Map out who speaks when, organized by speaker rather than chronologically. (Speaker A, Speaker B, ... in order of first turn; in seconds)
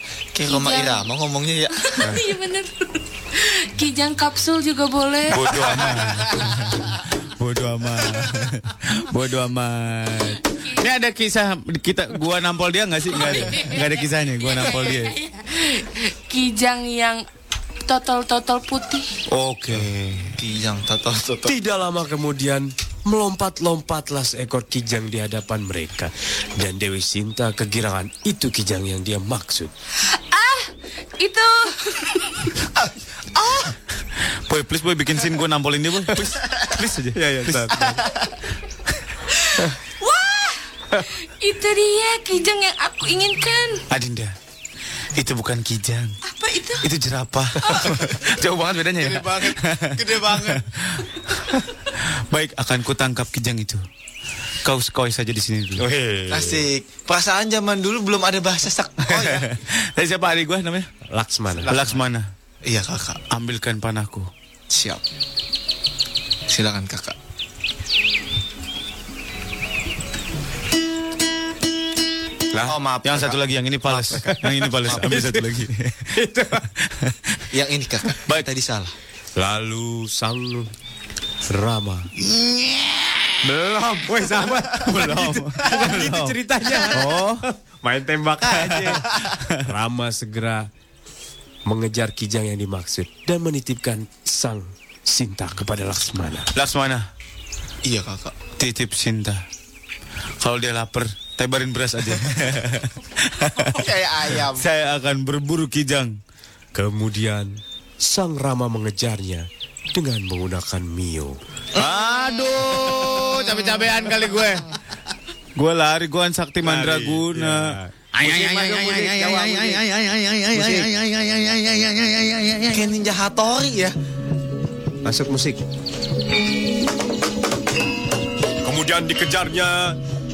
Speaker A: 0.3-1.8, 20.4-21.6, 49.1-50.5, 56.3-59.5, 61.7-62.0, 62.6-63.2, 64.7-65.0, 66.5-67.2, 72.6-73.4, 77.5-78.9, 97.8-98.5, 103.9-104.5, 122.7-123.9
Speaker B: 0.5-1.0, 1.8-5.7, 13.1-17.2, 17.9-19.1, 30.3-32.3, 39.6-43.8, 46.2-46.9, 47.6-48.0
Speaker C: 5.3-15.1, 19.3-20.4, 34.5-38.0, 43.9-44.3, 45.1-46.1, 46.8-51.0, 52.3-53.8, 54.6-55.9, 59.1-60.9, 61.7-62.3, 63.3-64.3, 73.0-76.1, 76.8-77.4, 82.2-83.3, 84.8-86.4, 86.9-87.5, 88.6-89.6, 96.5-97.1, 98.6-99.4, 100.4-106.2, 111.8-114.7, 115.6-122.8
Speaker D: 21.5-29.7, 36.2-37.9, 55.8-56.6, 61.1-61.8, 73.9-75.5, 76.1-76.7, 79.4-80.7, 81.5-82.1, 83.4-89.1, 89.6-90.7, 91.7-96.5, 106.8-111.4, 116.6-119.8, 120.5-120.9, 125.0-125.6, 128.6-130.0